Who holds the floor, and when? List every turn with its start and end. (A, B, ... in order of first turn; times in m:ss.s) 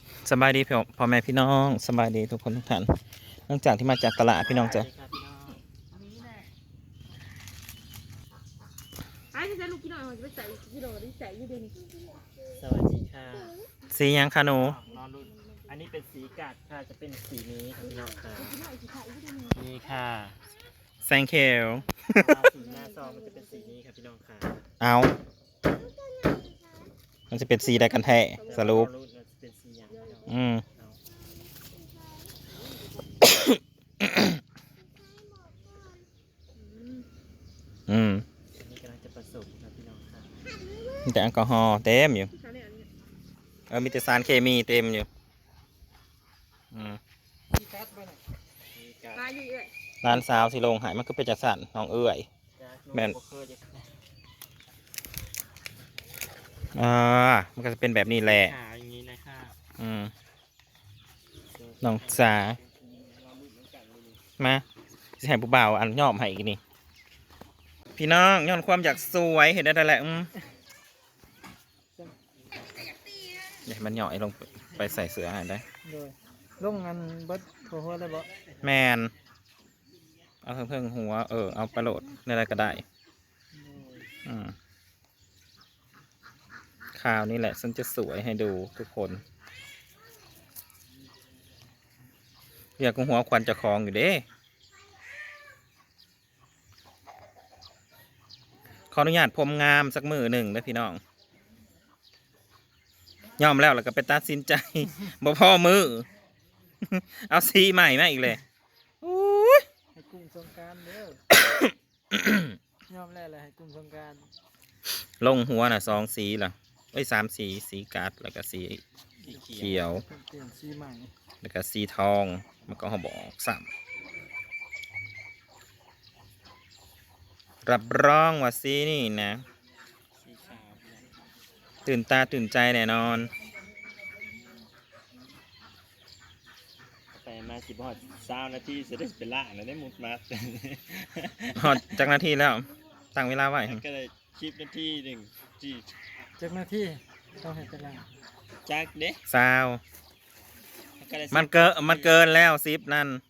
0:00.2-0:04.9 A
0:04.4-0:05.6 B
0:09.3-0:12.2 C
0:12.5-0:13.5 B
0:13.9-0:14.8 A
0:14.5-0:18.6 B
0:18.4-0:19.5 C
0:19.5-0:20.4 B
0:21.0-0:22.4 A
0:22.1-0:24.6 B
0:23.1-0:23.4 C
0:24.8-0:25.2 A
0:25.8-0:26.8 C
0:27.3-0:28.9 A
0:28.4-0:31.0 B
0:30.3-0:30.6 A
0:32.0-0:32.4 C
0:33.2-0:34.3 A
0:36.6-0:37.1 C
0:37.9-0:38.2 A
0:38.6-0:40.5 B
0:41.0-0:42.3 A
0:42.4-0:42.9 C
0:43.7-0:45.1 A
0:46.7-0:47.0 A
0:47.5-0:48.2 D
0:48.7-0:49.4 B
0:49.2-0:49.7 C
0:50.0-0:52.2 A
0:52.6-0:53.9 B
0:56.7-0:58.6 A
0:58.1-0:59.6 B
0:59.8-1:00.1 A
1:01.5-1:04.2 B
1:01.8-1:02.6 A
1:04.4-1:04.6 A
1:05.2-1:06.6 A
1:08.0-1:10.3 A
1:13.6-1:15.6 A
1:15.8-1:18.3 D
1:18.6-1:19.1 A
1:20.4-1:22.8 A
1:23.6-1:24.0 B
1:24.2-1:24.5 A
1:26.9-1:29.2 A
1:32.8-1:34.2 A
1:38.9-1:41.0 A
1:43.4-1:46.1 A
1:46.8-1:48.4 A
1:49.0-1:49.6 A
1:49.9-1:51.2 D
1:51.3-1:52.5 A
1:52.9-1:54.3 D
1:55.2-1:58.8 A
1:59.2-1:59.9 B
1:59.5-2:00.0 A
1:59.9-2:01.1 D
2:01.4-2:03.7 A
2:07.6-2:09.4 A
2:10.2-2:11.1 B
2:11.8-2:13.3 A
2:17.1-2:22.0 B
2:21.6-2:23.8 A
2:23.6-2:25.8 B
2:26.4-2:28.1 D
2:28.6-2:29.2 B
2:29.3-2:29.8 A
2:31.0-2:32.3 B
2:31.3-2:33.2 A